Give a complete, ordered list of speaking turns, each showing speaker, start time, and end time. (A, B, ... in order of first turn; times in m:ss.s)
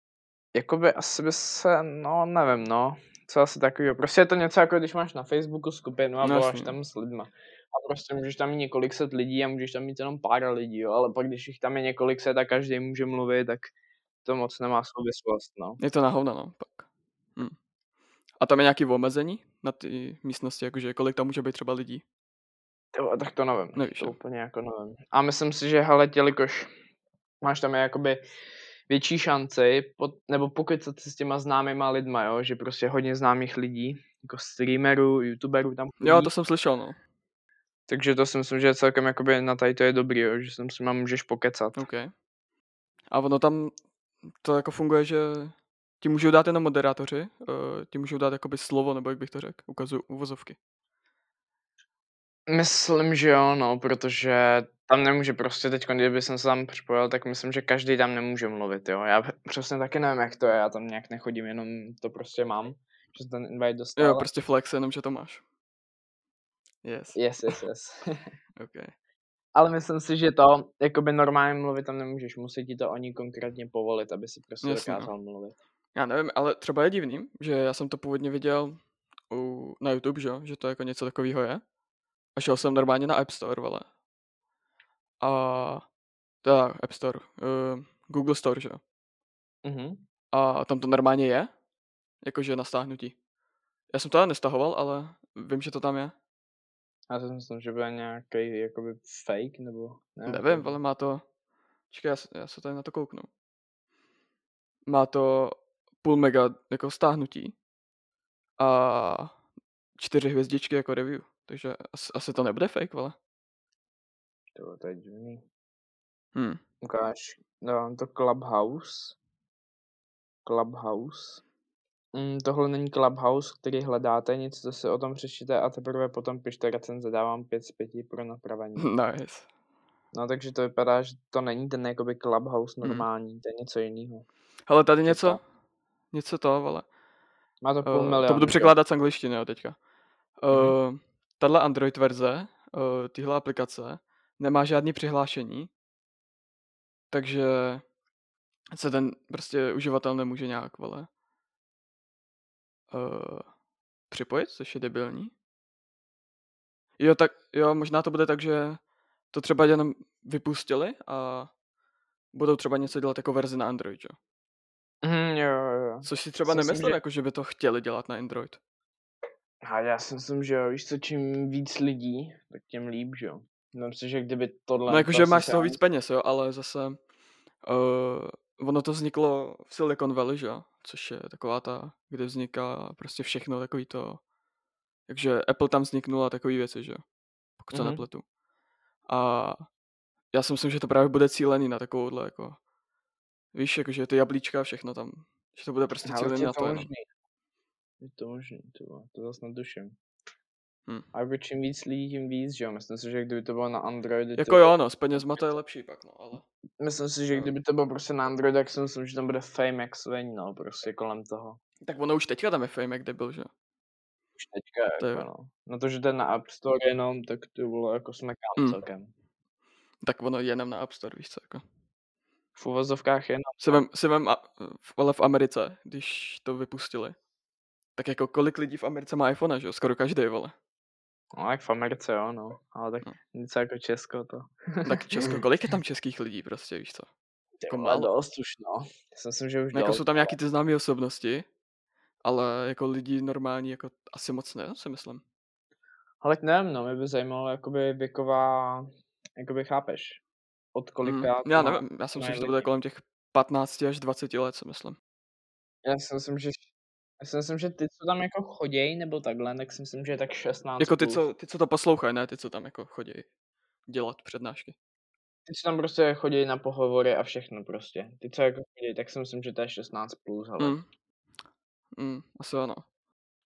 0:00.5-0:13.7 A
0:06.2-0:06.7 B
0:14.2-0:15.8 A
0:15.8-0:17.6 B
0:18.4-0:22.0 B
0:22.9-0:26.7 A
0:23.8-0:24.2 B
0:27.4-0:28.2 A
0:28.9-0:36.3 A
0:36.0-0:37.0 B
0:37.9-0:41.8 A
0:41.8-0:42.1 B
0:43.1-0:43.8 B
0:44.4-0:50.6 B
0:52.5-1:04.3 A
1:04.0-1:05.4 B
1:06.8-1:07.5 B
1:07.2-1:08.1 A
1:08.6-1:08.9 B
1:09.6-1:15.6 A
1:14.6-1:15.1 B
1:16.0-1:18.8 B
1:19.3-1:21.6 B
1:22.4-1:23.8 B
1:25.2-1:25.8 B
1:26.4-1:28.8 B
1:29.6-1:30.0 A
1:30.3-1:31.5 B
1:32.2-1:33.2 B
1:33.9-1:36.2 B
1:37.1-1:40.8 A
1:40.3-1:41.2 B
1:41.9-1:43.3 B
1:44.9-1:47.6 B
1:48.6-1:49.3 B
1:50.0-1:53.2 B
1:54.6-1:55.4 A
1:56.4-1:56.6 B
1:56.8-1:59.2 A
2:00.5-2:01.4 A
2:02.1-2:08.9 A
2:08.8-2:09.5 B
2:10.1-2:14.2 A
2:14.7-2:15.4 B
2:15.1-2:15.4 A
2:16.1-2:16.9 B
2:17.6-2:18.7 A
2:17.8-2:19.8 B
2:20.4-2:25.7 B
2:27.1-2:27.8 B
2:28.7-2:31.1 B
2:32.9-2:33.5 B
2:34.1-2:35.3 B
2:37.0-2:41.5 B
2:42.3-2:44.2 B
2:45.0-2:47.0 A
2:46.0-2:48.6 B
2:49.6-2:55.8 A
2:54.9-2:57.0 B
2:57.6-3:04.2 B
3:05.1-3:07.0 B
3:07.6-3:08.2 B
3:07.7-3:08.0 A
3:09.1-3:09.6 B
3:10.3-3:12.6 B
3:13.5-3:16.9 B
3:16.1-3:17.1 A
3:18.0-3:20.0 A
3:21.1-3:25.4 A
3:24.4-3:26.4 B
3:26.8-3:31.6 A
3:31.8-3:33.5 B
3:34.4-3:39.1 A
3:35.0-3:35.3 B
3:40.0-3:41.6 B
3:42.6-3:43.8 A
3:43.6-3:47.2 B
3:48.0-3:50.6 B
3:51.4-3:55.4 A
3:54.8-3:57.1 B
3:57.6-4:00.4 A
3:57.7-3:58.1 B
3:59.7-4:01.5 B
4:02.2-4:05.2 B
4:06.2-4:10.2 A
4:10.8-4:12.7 A
4:11.0-4:15.0 B
4:15.8-4:16.6 A
4:17.2-4:21.2 A
4:20.8-4:23.3 B
4:23.9-4:24.8 B
4:25.5-4:30.8 A
4:30.6-4:30.9 B
4:32.0-4:32.8 B